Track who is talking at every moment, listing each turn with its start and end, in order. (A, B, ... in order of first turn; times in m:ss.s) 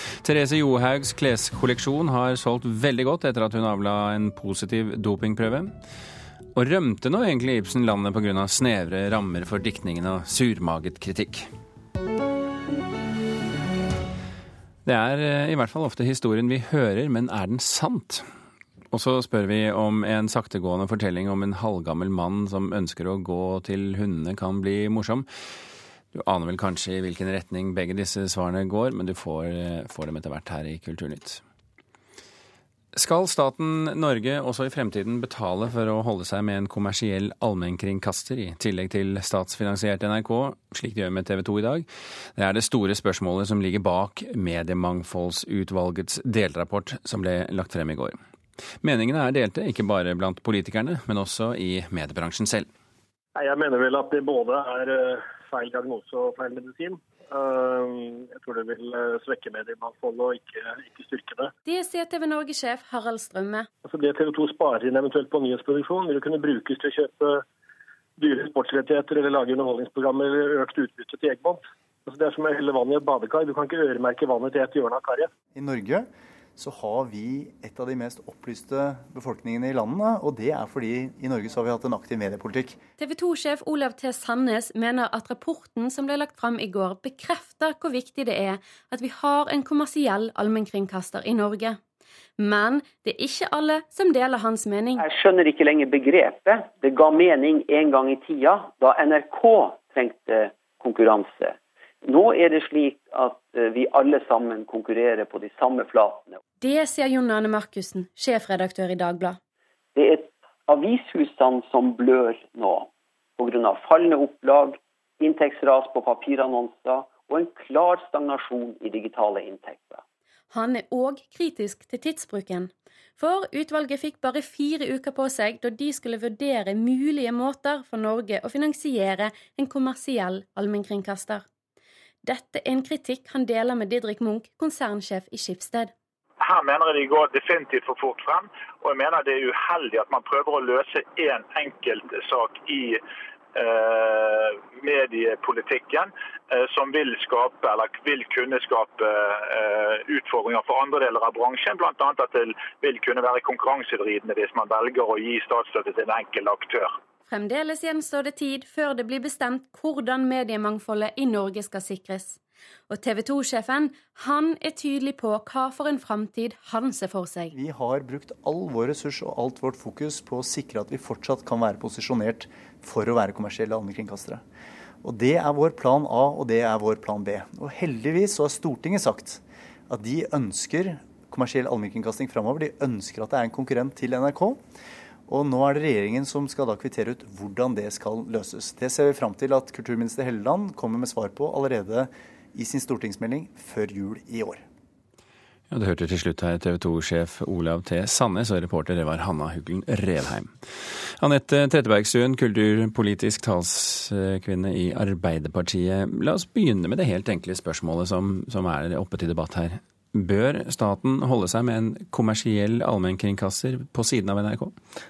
0:00.2-0:05.7 A
0:06.5-0:11.5 A
0:14.8-0:18.2 A
0:18.9-0:25.3 A
0:26.1-0:31.4 A
0:32.9-0:48.2 A
0:48.8-0:52.7 A
0:53.3-1:01.5 B
1:01.6-1:03.7 C
1:03.8-1:07.4 B
1:08.2-1:15.3 B
1:15.5-1:22.8 D
1:23.0-1:31.8 C
1:32.4-1:35.0 C
1:35.0-1:46.4 E
1:46.6-1:49.4 C
1:49.9-2:00.0 E
2:00.5-2:11.4 C
2:12.2-2:15.9 C
2:16.4-2:23.0 F
2:23.5-2:36.9 F
2:37.3-2:42.4 C
2:42.9-2:47.5 C
2:47.5-2:54.4 D
2:55.0-3:04.6 D
3:05.3-3:14.6 D
3:15.7-3:20.5 A
3:21.2-3:34.7 A